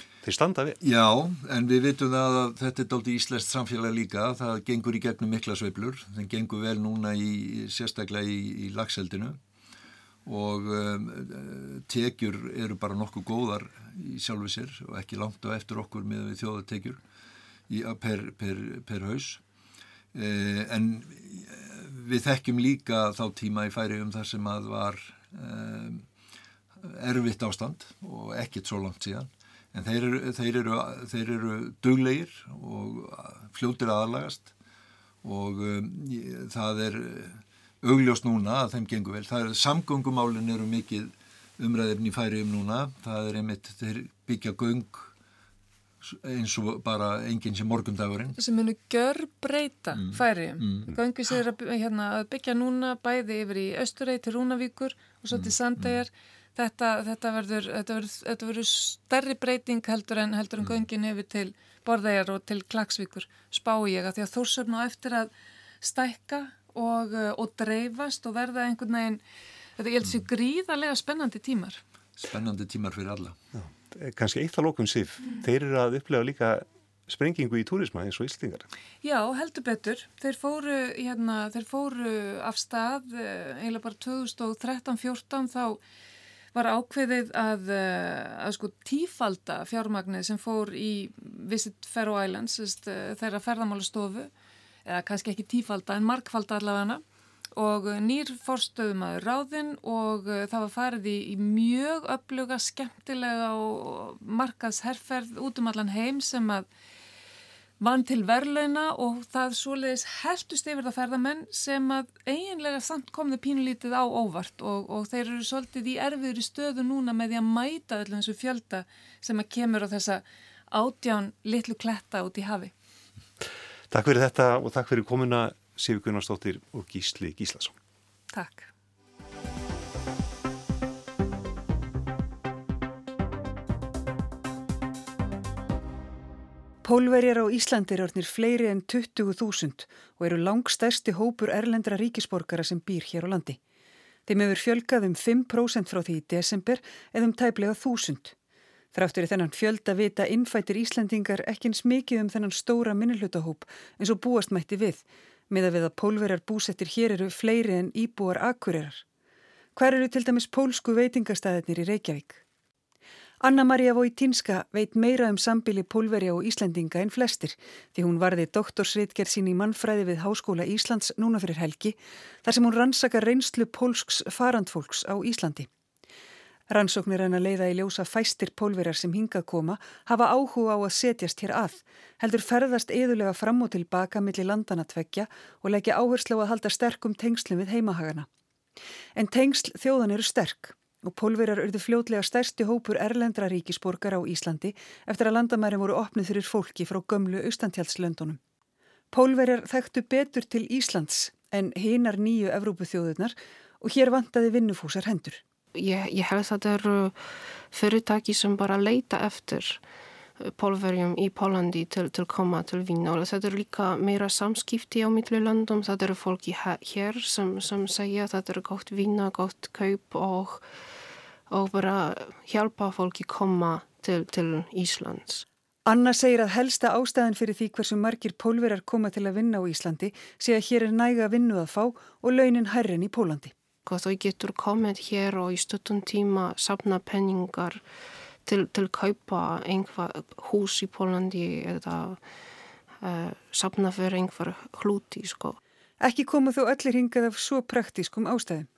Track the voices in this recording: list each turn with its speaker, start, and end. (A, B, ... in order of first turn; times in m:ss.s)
0:00.2-0:00.8 A
0:00.8-0:09.4 B
0:10.3-0:17.0 B
0:17.7-0:19.4 B
0:20.1-0:26.0 B
0:26.8-0:34.5 B
0:35.2-0:45.1 B
0:46.0-0:48.4 B
0:48.4-1:09.2 C
0:50.0-0:50.8 B
0:55.3-0:55.9 B
1:09.8-1:11.8 C
1:12.2-1:13.4 B
1:13.6-1:18.7 A
1:19.0-1:25.8 C
1:26.5-1:34.3 C
1:34.8-1:37.0 C
1:37.6-1:46.7 C
1:47.8-2:02.7 C
2:03.9-2:07.8 A
2:08.3-2:08.7 C
2:16.8-2:23.6 D
2:24.3-2:28.3 D
2:28.9-2:39.0 D
2:39.8-2:42.4 D
2:43.4-2:55.7 D
2:56.7-3:08.3 D
3:09.2-3:18.4 D
3:19.1-3:25.4 D
3:25.7-3:27.2 E
3:27.7-3:29.8 E
3:30.4-3:40.6 E
3:41.5-3:45.4 E
3:45.9-3:53.5 D
3:53.9-3:57.8 E
3:58.4-4:02.2 E
4:03.0-4:05.6 E
4:06.0-4:08.7 D